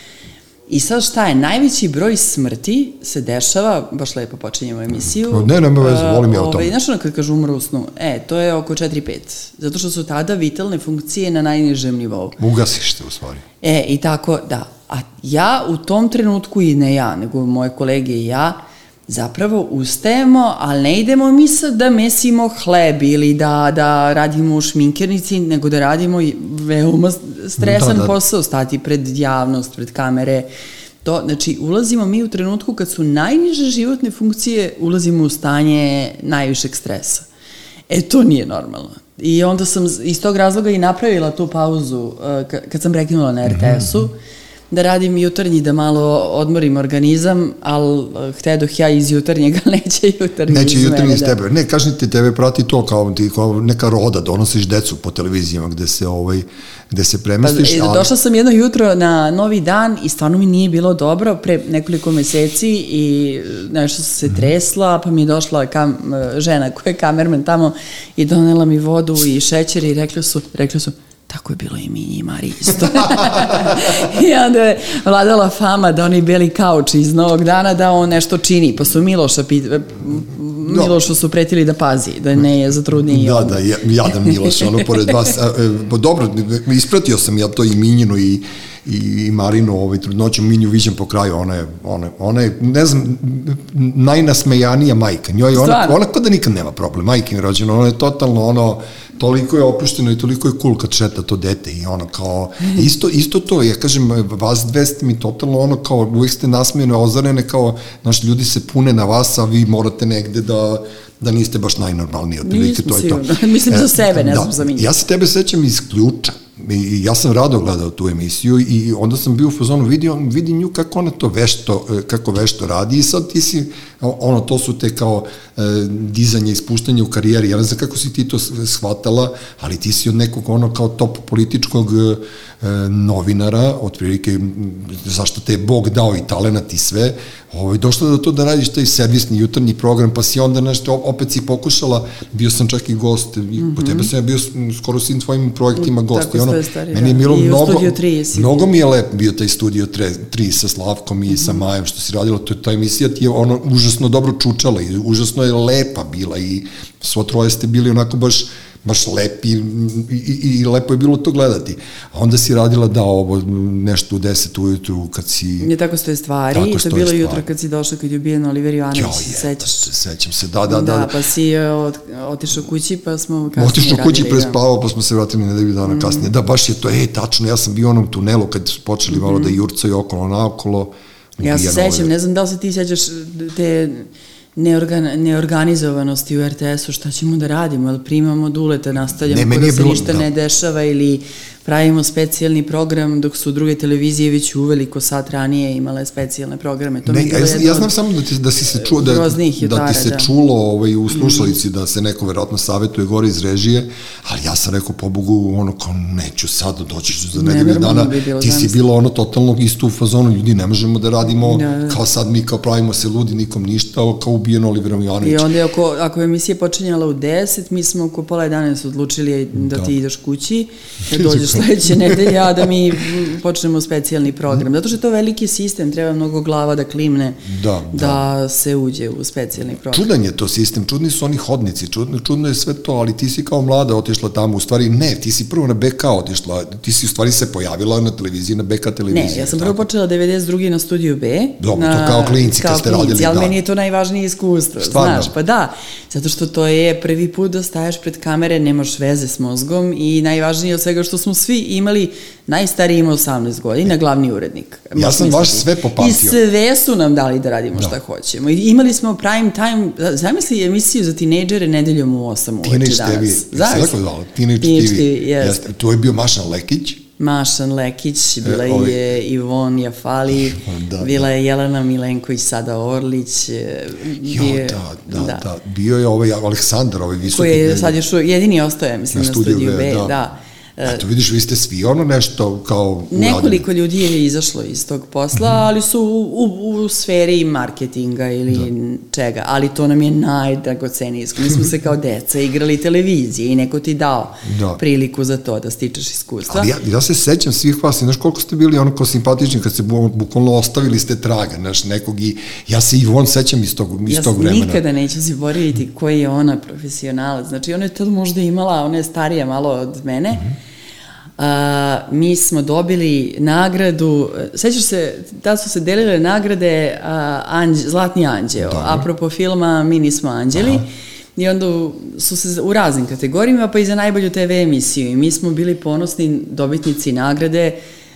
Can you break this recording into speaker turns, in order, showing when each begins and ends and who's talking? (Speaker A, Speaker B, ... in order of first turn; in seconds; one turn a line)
Speaker A: 0.7-12.3
Speaker B: 5.2-6.7
Speaker B: 12.4-13.4
Speaker A: 13.6-30.5
Speaker B: 27.6-28.1
Speaker A: 31.0-37.2
Speaker A: 37.9-44.1
Speaker B: 43.4-44.1
Speaker A: 44.7-51.4
Speaker B: 50.5-58.1
Speaker A: 57.4-85.3
Speaker B: 80.6-81.0
Speaker B: 83.1-165.7
Speaker A: 95.5-96.0
Speaker A: 112.4-114.9
Speaker A: 143.6-144.1
Speaker A: 145.8-148.7
Speaker A: 151.3-151.6
Speaker A: 165.6-169.9
Speaker B: 166.5-167.4
Speaker B: 168.9-171.1
Speaker A: 170.7-174.6
Speaker B: 173.5-182.1
Speaker A: 175.8-176.3
Speaker A: 179.1-179.6
Speaker A: 181.4-197.9
Speaker B: 189.2-190.3
Speaker B: 197.1-215.5
Speaker A: 198.7-200.3
Speaker A: 201.1-201.5
Speaker A: 207.3-208.8
Speaker A: 211.3-212.0
Speaker A: 215.2-230.1
Speaker B: 221.1-222.5
Speaker B: 227.4-228.2
Speaker B: 229.8-239.8
Speaker A: 239.1-263.9
Speaker B: 241.6-243.5
Speaker B: 244.8-245.3
Speaker B: 254.9-256.4
Speaker B: 262.6-267.0
Speaker A: 264.6-265.6
Speaker A: 267.2-275.4
Speaker B: 268.4-269.0
Speaker B: 270.4-271.2
Speaker B: 274.2-278.0
Speaker A: 277.3-281.0
Speaker B: 279.1-280.1
Speaker B: 280.8-283.6
Speaker A: 283.1-296.7
Speaker B: 294.4-294.8
Speaker B: 296.5-304.8
Speaker A: 304.1-310.4
Speaker A: 311.4-327.8
Speaker B: 318.6-319.1
Speaker B: 320.6-320.8